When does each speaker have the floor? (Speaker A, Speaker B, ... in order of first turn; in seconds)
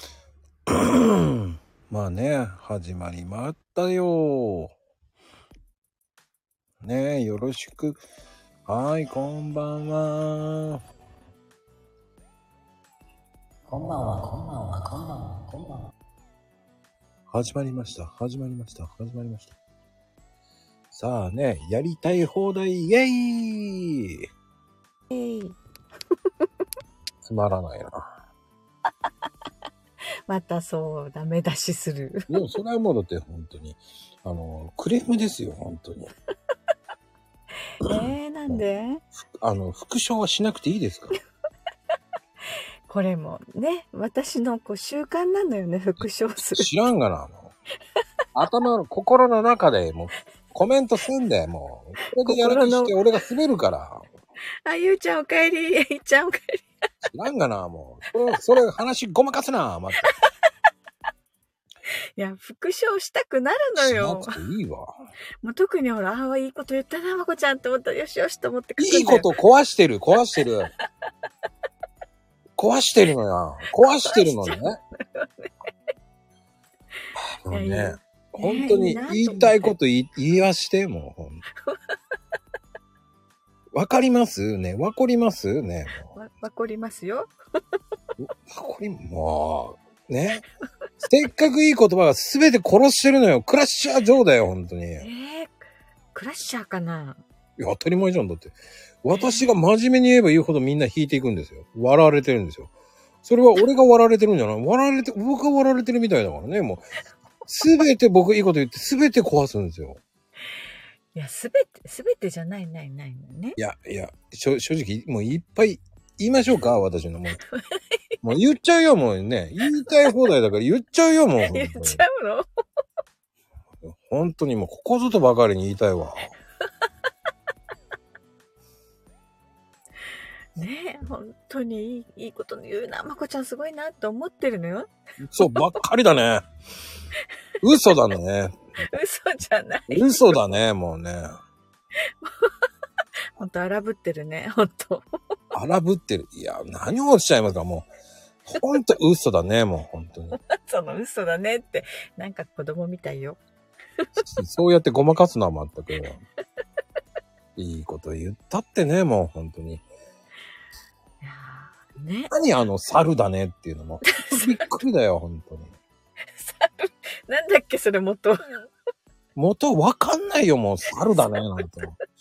Speaker A: 0.7-4.7, 6.8-8.0, 8.7-10.8, 17.3-19.5, 20.9-24.2, 27.2-28.1, 32.3-36.1, 39.4-41.1, 46.0-47.5, 48.3-54.1, 57.0-60.1, 63.8-65.0, 68.8-70.7, 72.6-74.8, 77.4-81.4, 83.7-86.1, 88.2-90.4, 91.0-95.1, 97.6-102.7, 103.2-106.8, 107.5-110.0, 113.6-117.4, 118.2-122.0, 123.8-126.3, 135.2-136.4, 137.6-138.6, 139.9-141.3, 145.5-147.9, 148.4-150.4, 154.2-156.2, 157.6-159.8, 162.3-165.8, 169.3-171.9
Speaker B: 13.7-15.9
Speaker C: 25.1-25.6, 30.3-32.4, 37.8-39.0, 42.9-46.7, 52.2-52.9, 54.6-56.6, 62.2-64.3, 65.4-69.3, 74.0-75.5, 77.5-79.7, 86.1-87.3, 95.0-95.6, 96.1-97.2, 99.1-99.5, 111.1-113.6, 117.5-117.8, 121.5-122.4, 130.6-134.9, 135.4-135.7, 138.9-140.4, 142.2-142.5, 143.4-145.0, 150.3-153.4, 161.2-162.3, 164.1-164.6, 166.3-168.7